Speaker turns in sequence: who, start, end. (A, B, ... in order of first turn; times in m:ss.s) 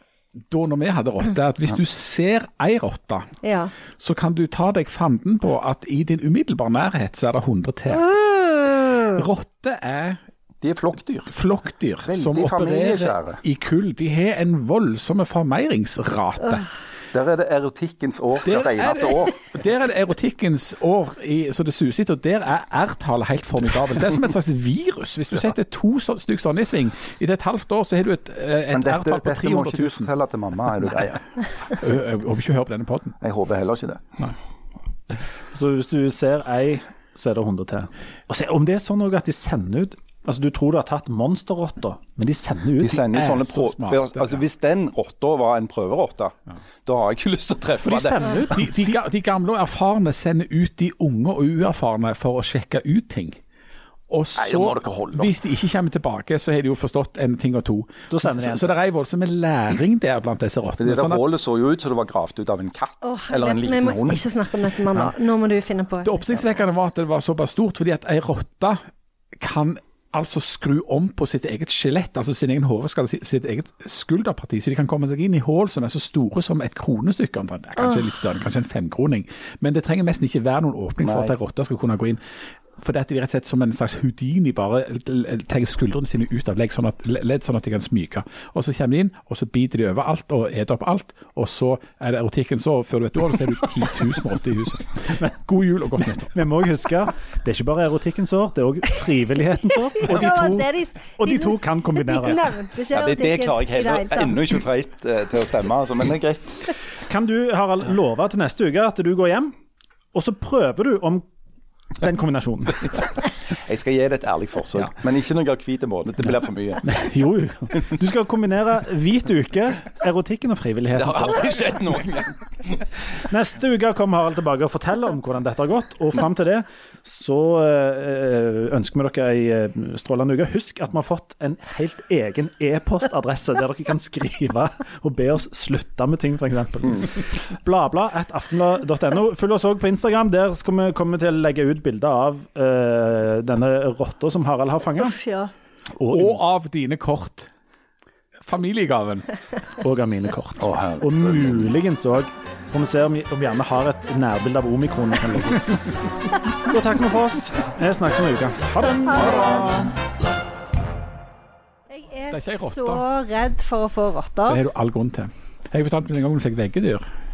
0:00.5-0:03.3 A
0:03.4-0:03.7 B
0:04.0-0:08.1 A
0:07.9-0:09.2 B
0:09.1-0:10.2 A
0:10.6-0:11.3 C
0:11.3-0:16.6 A
0:12.0-0:13.4 C
0:17.1-0:19.4 C
0:18.4-0:30.1 A
0:28.7-0:31.2 C
0:31.7-0:33.1 A
0:33.2-0:34.1 C
0:35.5-0:43.2 D
0:42.8-0:46.3 C
0:43.1-0:44.4 A
0:46.8-0:48.2 C
0:47.8-0:48.9 D
0:48.3-0:53.4 A
0:54.1-1:01.2 A
0:54.4-0:55.3 C
0:58.1-0:58.7 D
1:00.8-1:04.2 C
1:03.0-1:06.2 B
1:06.0-1:08.8 A
1:09.3-1:22.2 A
1:21.0-1:21.3 C
1:22.8-1:36.3 A
1:36.3-1:42.5 D
1:40.0-1:44.4 B
1:42.9-1:46.7 C
1:47.0-1:49.5 D
1:50.1-1:51.2 D
1:52.0-1:53.0 D
1:53.5-1:56.8 C
1:56.8-2:01.6 D
2:00.9-2:02.8 C
2:03.3-2:25.2 D
2:25.0-2:25.5 B
2:26.0-2:26.4 D
2:26.1-2:27.5 A
2:28.4-2:29.3 A
2:29.8-2:36.1 D
2:30.6-2:31.7 C
2:36.6-2:39.9 D
2:39.2-2:39.8 B
2:41.9-2:44.6 B
2:42.3-2:43.0 A
2:44.5-2:47.0 A